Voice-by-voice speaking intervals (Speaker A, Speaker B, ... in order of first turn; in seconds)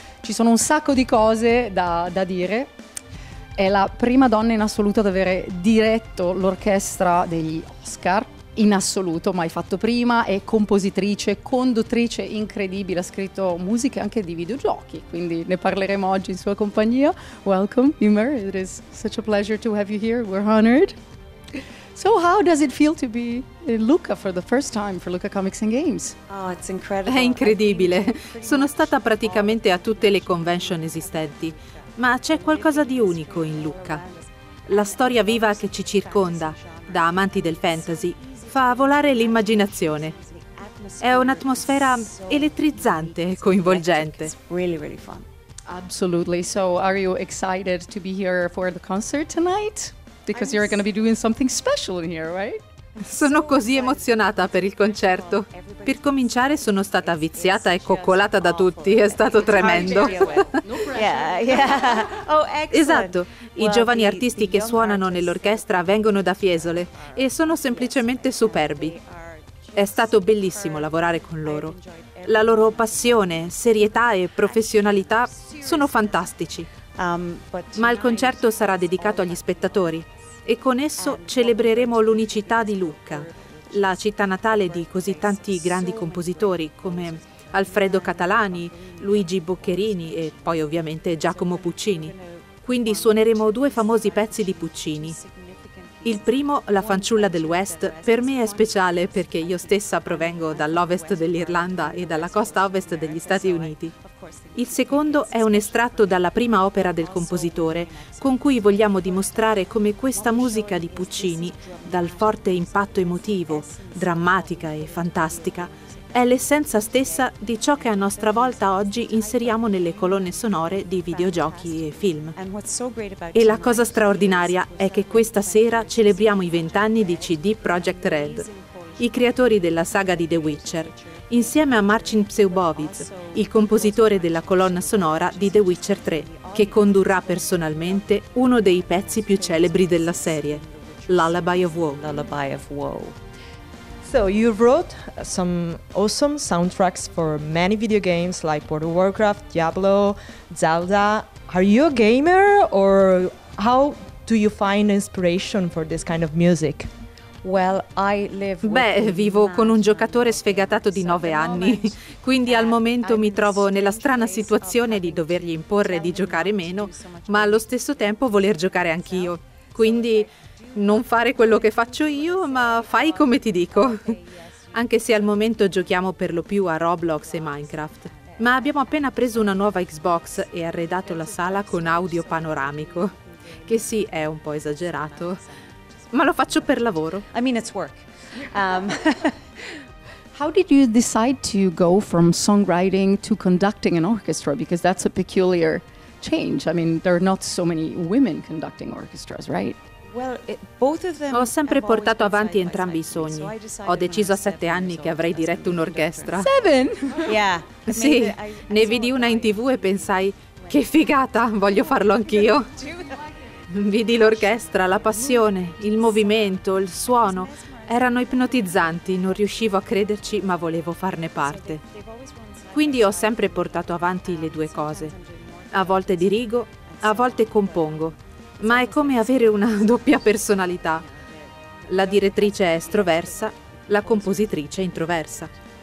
Speaker A: 0.2-2.7, 3.6-21.0, 21.9-26.2, 45.7-52.6, 59.6-62.3, 190.3-199.8, 206.3-207.4
Speaker B: 26.3-45.2, 50.3-50.9, 53.0-80.4, 80.9-143.2, 157.4-176.0, 177.1-189.5, 200.1-213.3, 214.0-220.6, 221.2-235.6
Speaker C: 27.0-34.0, 34.7-40.1, 41.0-44.3, 53.0-60.5, 62.7-69.0, 69.7-76.7, 77.7-95.2, 96.0-103.9, 104.5-122.3, 123.3-128.5, 129.0-142.3, 158.6-174.2, 174.7-185.4, 186.1-187.2, 201.3-206.5, 207.8-212.7, 213.7-221.8, 222.7-225.1, 225.7-231.1, 231.9-235.5
Speaker D: 144.0-156.9